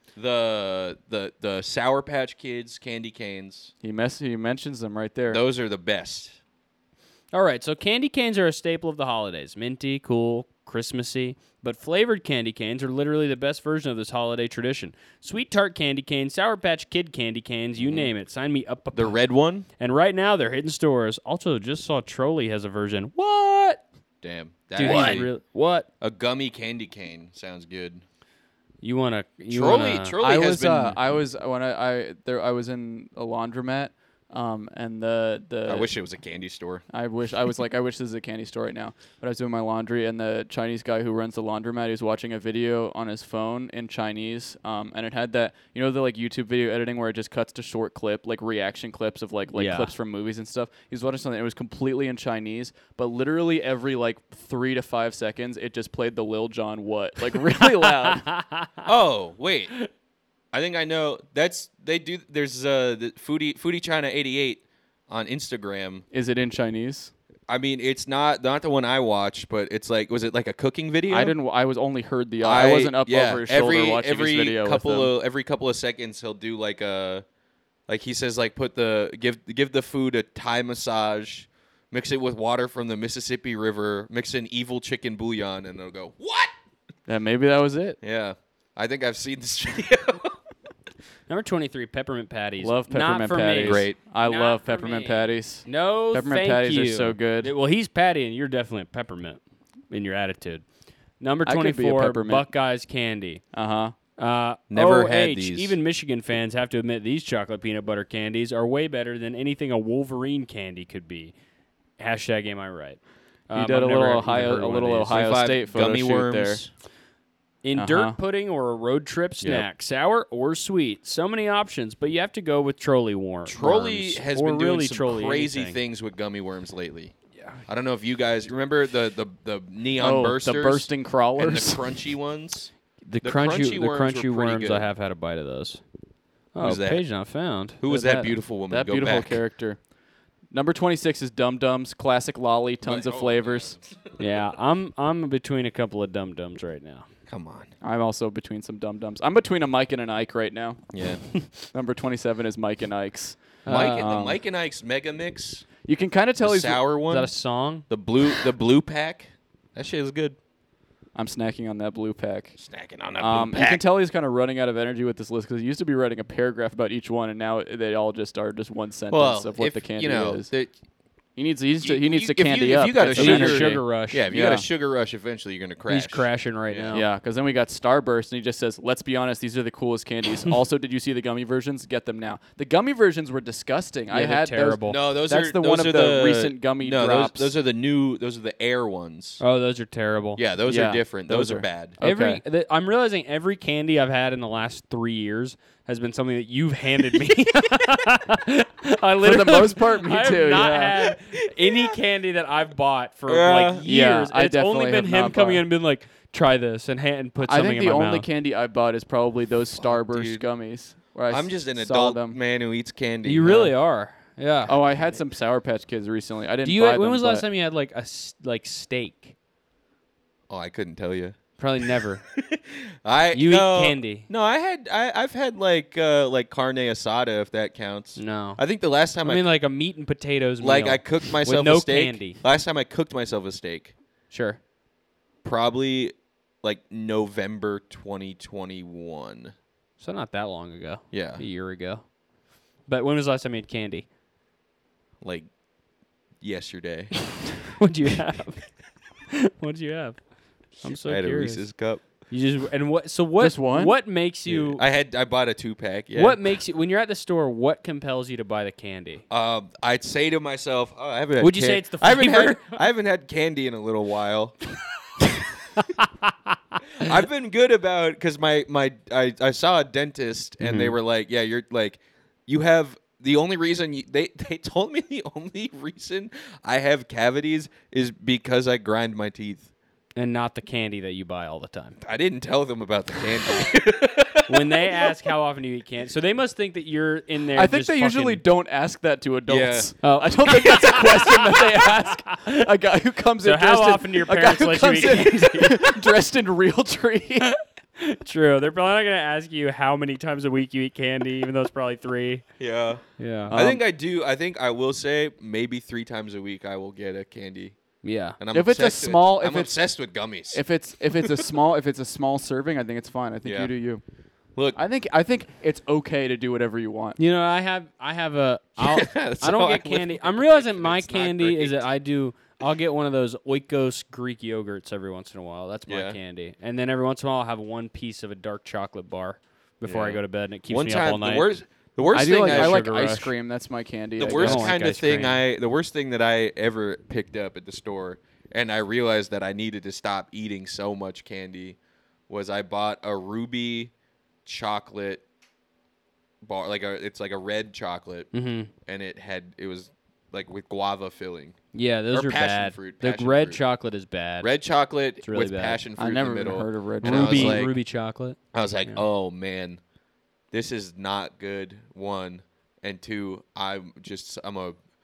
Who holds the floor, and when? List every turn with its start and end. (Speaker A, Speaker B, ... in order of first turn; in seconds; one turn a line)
Speaker A: 0.1-3.7
Speaker B: 3.8-5.4
Speaker A: 5.3-6.3
Speaker C: 7.3-19.2
Speaker A: 17.8-18.1
Speaker A: 18.9-19.7
Speaker C: 19.8-23.8
Speaker A: 24.2-25.3
Speaker C: 24.8-25.9
Speaker B: 24.8-25.2
Speaker A: 26.0-28.0
Speaker C: 28.8-30.1
Speaker A: 29.5-31.1
Speaker B: 30.2-35.9
Speaker A: 35.6-36.8
Speaker B: 36.9-58.2
Speaker C: 49.5-49.9
Speaker C: 57.6-58.9
Speaker A: 58.8-59.7
Speaker A: 60.5-66.0
Speaker B: 66.1-67.1
Speaker A: 67.5-71.3
Speaker B: 71.1-75.1
Speaker A: 72.4-77.2
Speaker A: 77.9-86.5
Speaker B: 87.1-88.0
Speaker A: 88.0-90.3
Speaker C: 91.3-100.6
Speaker B: 92.6-97.5
Speaker A: 93.6-94.0
Speaker C: 101.2-103.4
Speaker B: 101.4-102.5
Speaker B: 103.5-103.9
Speaker C: 104.2-111.3
Speaker A: 104.7-105.7
Speaker C: 112.0-115.2
Speaker B: 113.5-116.6
Speaker A: 115.1-116.7
Speaker C: 117.6-125.8
Speaker B: 117.8-118.2
Speaker A: 123.5-132.7
Speaker B: 130.0-131.8
Speaker C: 133.0-135.8
Speaker A: 133.2-134.8
Speaker C: 136.5-137.8
Speaker A: 136.6-137.0
Speaker A: 137.8-139.4
Speaker B: 137.9-139.8
Speaker B: 140.5-143.7
Speaker A: 142.8-144.2
Speaker C: 144.2-147.1
Speaker A: 147.3-147.7
Speaker B: 147.8-150.9
Speaker A: 150.9-151.2
Speaker B: 151.7-154.4
Speaker C: 153.6-154.1
Speaker A: 153.7-155.7
Speaker B: 155.8-156.8
Speaker A: 156.4-157.3
Speaker C: 157.1-157.9
Speaker A: 157.9-160.3
Speaker B: 161.1-162.5
Speaker A: 162.6-163.8
Speaker B: 163.2-170.5
Speaker A: 169.1-170.7
Speaker B: 171.3-174.6
Speaker A: 171.8-176.9
Speaker C: 173.1-174.2
Speaker C: 175.9-177.1
Speaker B: 176.9-187.5
Speaker C: 184.1-185.0
Speaker A: 184.9-189.4
Speaker C: 189.4-190.4
Speaker A: 190.4-192.0
Speaker B: 190.7-192.4
Speaker C: 192.0-208.2
Speaker B: 199.2-200.9
Speaker A: 203.3-203.8
Speaker B: 203.8-205.6
Speaker B: 207.4-212.4
Speaker A: 209.8-210.4
Speaker A: 211.3-213.7
Speaker C: 213.2-214.8
Speaker B: 214.7-217.4
Speaker C: 216.6-219.3
Speaker A: 220.5-221.4
Speaker C: 221.6-222.2
Speaker A: 222.3-229.4
Speaker C: 223.3-224.3
Speaker C: 228.2-228.6
Speaker C: 229.2-232.4
Speaker A: 230.6-233.9
Speaker C: 234.3-234.6
Speaker A: 235.4-239.5
Speaker C: 240.0-242.0
Speaker A: 241.1-241.4
Speaker C: 242.8-244.1
Speaker A: 245.2-245.5
Speaker A: 246.4-247.3
Speaker C: 247.7-248.7
Speaker C: 249.3-250.2
Speaker C: 250.8-251.7
Speaker A: 250.8-252.0
Speaker C: 252.2-254.8
Speaker B: 253.4-253.9
Speaker A: 254.4-256.4
Speaker C: 256.1-259.2
Speaker A: 259.3-264.6
Speaker C: 261.4-262.8
Speaker C: 265.8-266.5
Speaker A: 267.0-279.7
Speaker C: 270.6-270.9
Speaker C: 280.1-282.0
Speaker A: 282.0-285.0
Speaker C: 284.5-288.4
Speaker B: 287.6-297.5
Speaker A: 289.5-289.9
Speaker C: 290.0-292.6
Speaker C: 293.4-296.1
Speaker C: 297.4-302.4
Speaker A: 302.6-307.8
Speaker C: 303.2-303.5
Speaker B: 303.5-303.8
Speaker C: 308.0-308.4
Speaker A: 308.4-310.6
Speaker B: 308.5-309.8
Speaker B: 310.5-314.0
Speaker A: 313.4-313.7
Speaker B: 314.7-317.2
Speaker C: 317.2-331.5
Speaker A: 318.8-321.9
Speaker A: 325.9-326.2
Speaker A: 329.8-332.8
Speaker B: 332.1-334.7
Speaker C: 332.4-333.3
Speaker A: 334.2-341.8
Speaker C: 334.3-335.4
Speaker A: 342.3-343.9
Speaker A: 344.4-345.2
Speaker A: 346.4-348.3
Speaker C: 348.3-348.7
Speaker A: 348.8-351.6
Speaker C: 351.7-354.5
Speaker A: 352.1-353.6
Speaker A: 354.4-357.7
Speaker C: 355.2-355.8
Speaker B: 356.0-357.6
Speaker C: 357.0-359.0
Speaker A: 358.5-359.8
Speaker A: 360.5-364.8